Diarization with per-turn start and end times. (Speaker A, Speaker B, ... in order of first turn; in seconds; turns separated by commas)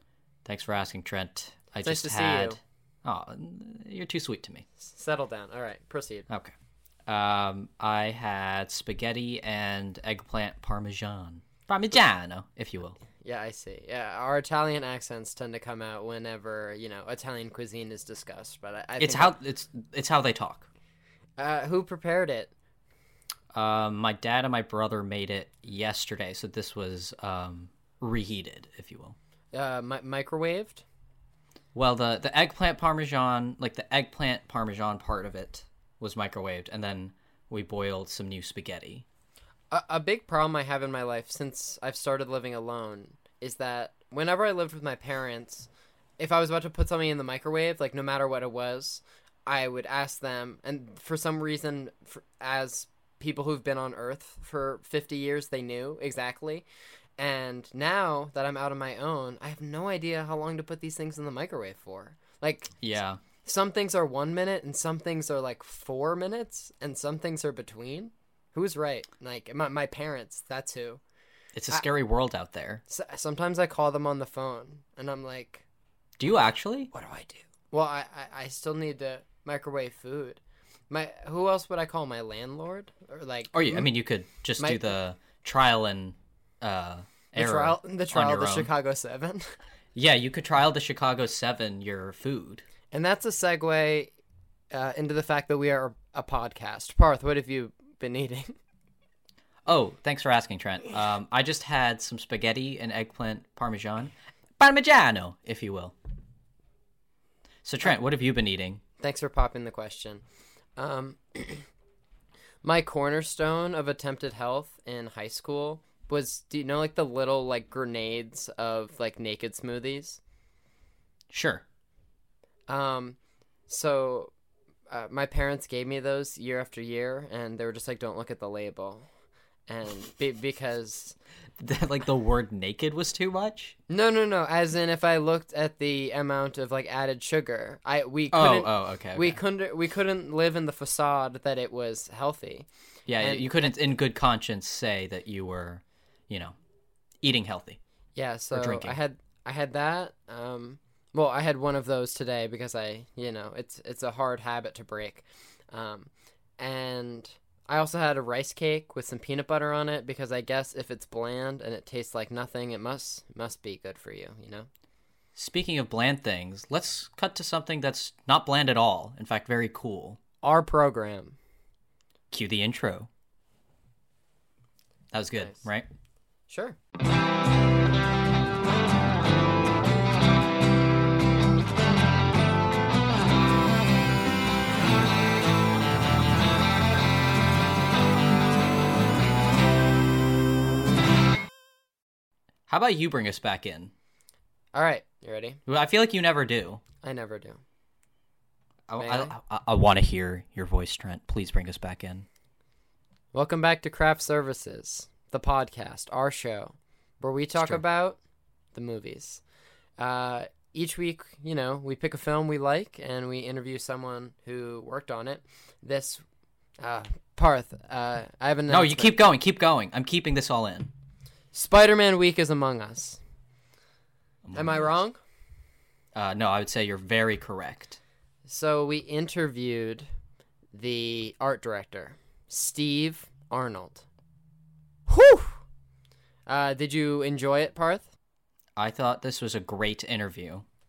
Speaker A: 0.5-4.7, Speaker B: 1.8-2.6, Speaker B: 4.8-6.3, Speaker A: 7.1-13.0, Speaker B: 13.2-19.3, Speaker A: 19.0-20.7, Speaker B: 21.4-22.5, Speaker A: 23.5-29.2, Speaker B: 29.5-30.8, Speaker A: 31.8-39.0, Speaker B: 39.7-56.6, Speaker B: 57.2-62.8, Speaker A: 62.8-63.2, Speaker B: 63.4-71.0, Speaker A: 71.5-72.8, Speaker B: 72.9-75.6, Speaker A: 76.2-76.9, Speaker B: 76.9-83.9, Speaker A: 83.5-88.7, Speaker B: 84.6-84.8, Speaker B: 87.4-89.6, Speaker A: 90.0-92.7, Speaker B: 92.9-94.1, Speaker B: 94.7-98.6, Speaker A: 99.7-105.9, Speaker A: 107.6-108.8, Speaker B: 109.0-110.2, Speaker B: 110.8-111.7, Speaker B: 112.6-120.2, Speaker A: 121.3-121.6, Speaker B: 122.7-123.2, Speaker B: 123.7-124.3, Speaker B: 124.9-129.1, Speaker B: 129.7-131.2, Speaker A: 131.6-133.8, Speaker B: 133.9-142.7, Speaker A: 138.3-139.4, Speaker A: 143.1-146.6, Speaker B: 143.2-143.7, Speaker A: 147.2-147.8, Speaker B: 148.2-164.7, Speaker A: 148.5-149.0, Speaker A: 165.4-170.2, Speaker B: 170.4-171.4, Speaker A: 172.3-173.1, Speaker A: 175.1-175.9, Speaker B: 176.5-176.8, Speaker A: 192.7-193.9, Speaker B: 194.7-195.6, Speaker A: 195.7-196.8, Speaker B: 197.0-197.6, Speaker A: 198.9-202.3, Speaker B: 199.0-199.3, Speaker B: 203.3-208.2, Speaker A: 207.6-207.8, Speaker B: 208.7-209.4, Speaker B: 210.0-216.2, Speaker B: 216.8-219.2, Speaker A: 218.7-220.9, Speaker B: 221.5-223.2, Speaker A: 224.5-224.9, Speaker B: 224.5-225.2, Speaker A: 226.2-228.0, Speaker B: 228.5-230.1, Speaker B: 230.7-234.0, Speaker B: 235.1-235.6, Speaker B: 236.5-238.1, Speaker A: 238.8-240.7